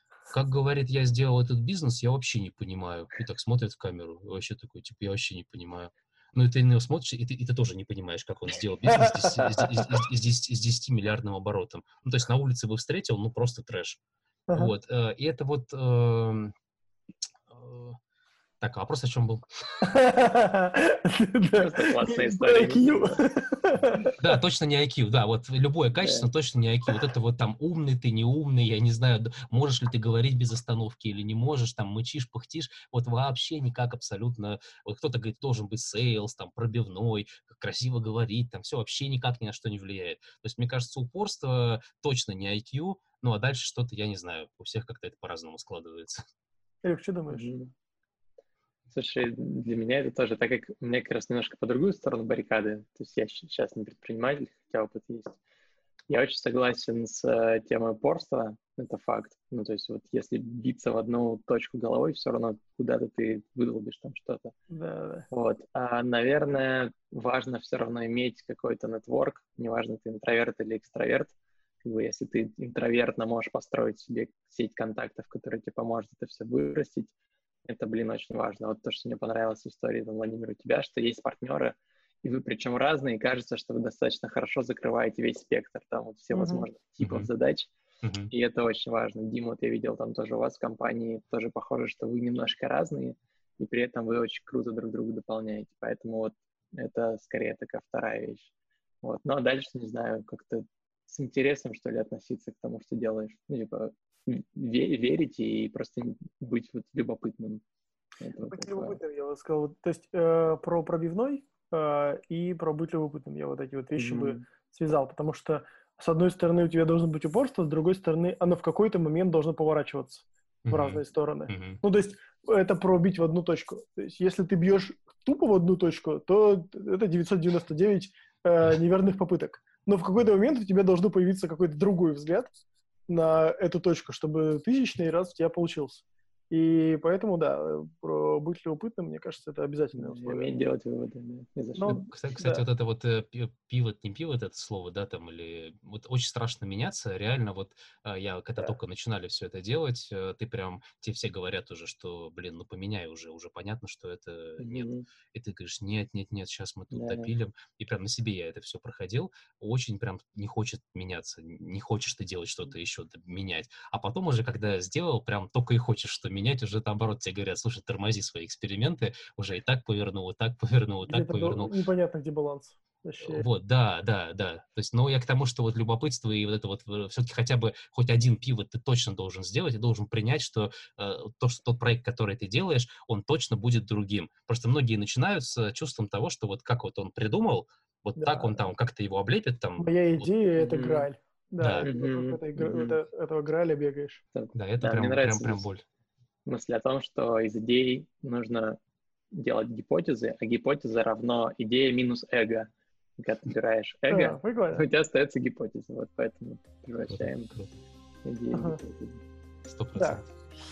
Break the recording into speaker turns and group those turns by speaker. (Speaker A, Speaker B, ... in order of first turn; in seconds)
Speaker A: 0.3-14.0, 14.5-16.5, 17.5-18.0, 18.6-19.5, 24.2-46.2, 87.0-87.3, 88.0-88.3, 120.7-121.8, 141.9-171.7, 173.2-190.3, 191.6-191.9, 194.5-195.8, 207.1-207.8, 209.7-210.3
Speaker B: 8.9-9.9, 14.5-14.7, 19.8-24.4, 46.8-47.5, 64.7-65.3, 86.3-86.7, 108.5-132.5, 133.1-140.5, 141.8-142.7, 171.1-173.4, 188.2-188.7, 189.8-194.2, 204.1-204.9, 208.5-208.8, 210.0-210.2
Speaker C: 21.5-23.2, 26.0-26.3, 47.3-47.7, 48.9-55.4, 56.1-64.5, 65.3-71.3, 71.8-77.1, 77.7-87.7, 88.3-98.5, 99.0-107.6, 108.2-109.0, 114.0-114.5, 139.9-142.0, 154.6-155.1, 156.9-157.3, 190.6-191.1, 191.8-193.0, 194.3-195.7, 196.5-198.8, 199.3-207.5, 208.2-209.2